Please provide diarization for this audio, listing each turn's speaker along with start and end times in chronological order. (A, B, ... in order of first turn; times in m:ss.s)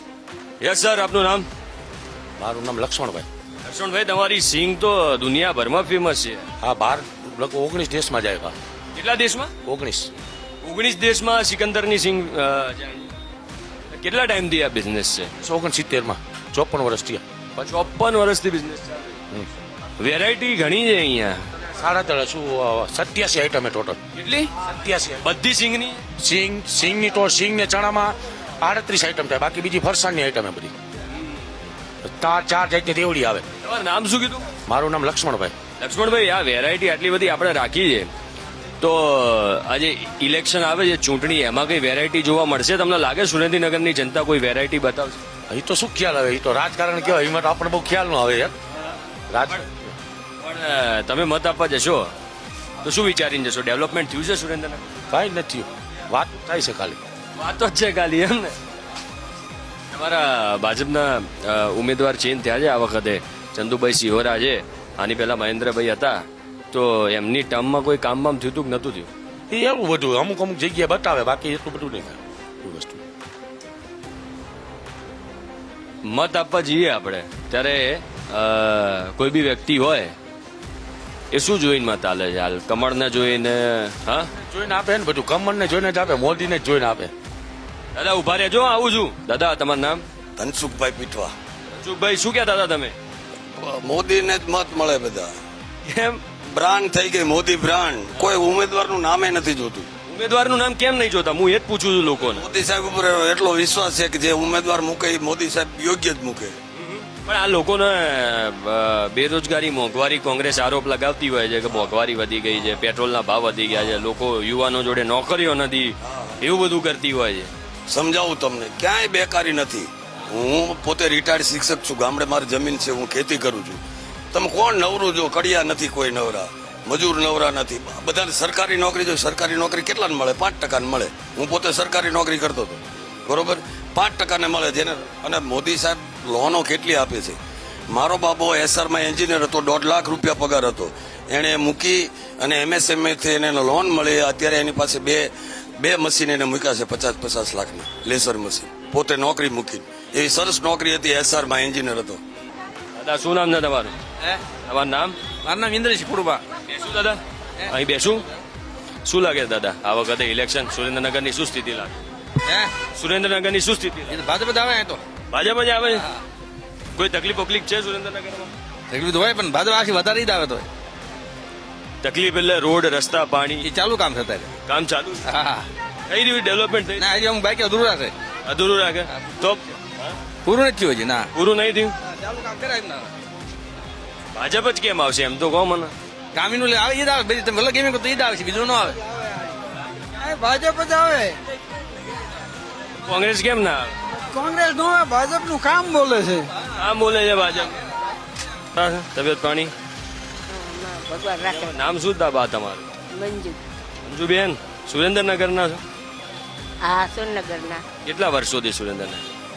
0:00.6-0:01.5 A
0:02.4-0:03.2 B
0:03.6-0:06.4 A
0:06.6-0:08.5 B
0:08.9-0:09.5 A
0:09.6-0:10.1 B
0:10.6-0:13.1 A
0:13.9-0:15.3 A
0:15.4-0:17.2 B
0:17.6-0:19.2 A
0:20.0-0:21.4 A
0:21.6-0:24.0 B
0:24.2-0:24.4 A
0:24.6-0:25.2 B
0:25.2-0:26.0 A
0:26.2-0:30.8 B
0:32.0-0:33.4 B
0:33.6-0:34.5 A
0:34.7-0:35.5 B
0:35.8-0:38.1 A
0:38.8-0:45.2 A
0:45.5-0:48.5 B
0:49.3-0:49.9 B
0:50.4-0:52.1 A
0:52.8-0:55.0 A
0:55.1-0:57.0 B
0:57.4-0:58.6 A
0:59.9-1:09.1 A
1:09.5-1:13.0 B
1:16.0-1:20.1 A
1:21.3-1:24.3 A
1:24.5-1:27.1 B
1:27.9-1:30.0 A
1:30.4-1:31.3 C
1:31.8-1:33.0 A
1:33.6-1:35.3 C
1:35.8-1:36.2 A
1:36.4-1:39.9 C
1:40.1-1:42.4 A
1:42.2-1:46.5 C
1:46.8-1:57.5 A
1:57.9-2:03.8 C
2:04.3-2:17.4 C
2:17.9-2:32.2 C
2:32.9-2:33.9 A
2:34.6-2:35.1 A
2:35.4-2:36.4 D
2:36.7-2:38.2 A
2:39.0-2:42.0 A
2:42.9-2:44.2 A
2:44.1-2:45.0 D
2:45.3-2:46.0 A
2:46.9-2:48.5 A
2:48.9-2:50.6 D
2:52.0-2:53.6 A
2:53.6-2:54.5 D
2:54.6-2:55.2 A
2:55.3-2:55.6 D
2:56.1-2:57.1 A
2:57.0-2:58.1 D
2:58.4-2:59.6 A
3:00.4-3:01.2 D
3:01.3-3:01.9 A
3:02.4-3:03.0 D
3:04.3-3:05.9 A
3:06.3-3:09.0 D
3:10.3-3:11.3 E
3:13.0-3:13.9 A
3:14.3-3:16.4 E
3:16.8-3:17.8 A
3:18.7-3:19.7 A
3:20.5-3:21.8 F
3:21.5-3:22.9 A
3:23.1-3:23.6 F
3:24.0-3:25.8 A
3:26.8-3:27.8 F
3:28.0-3:29.2 A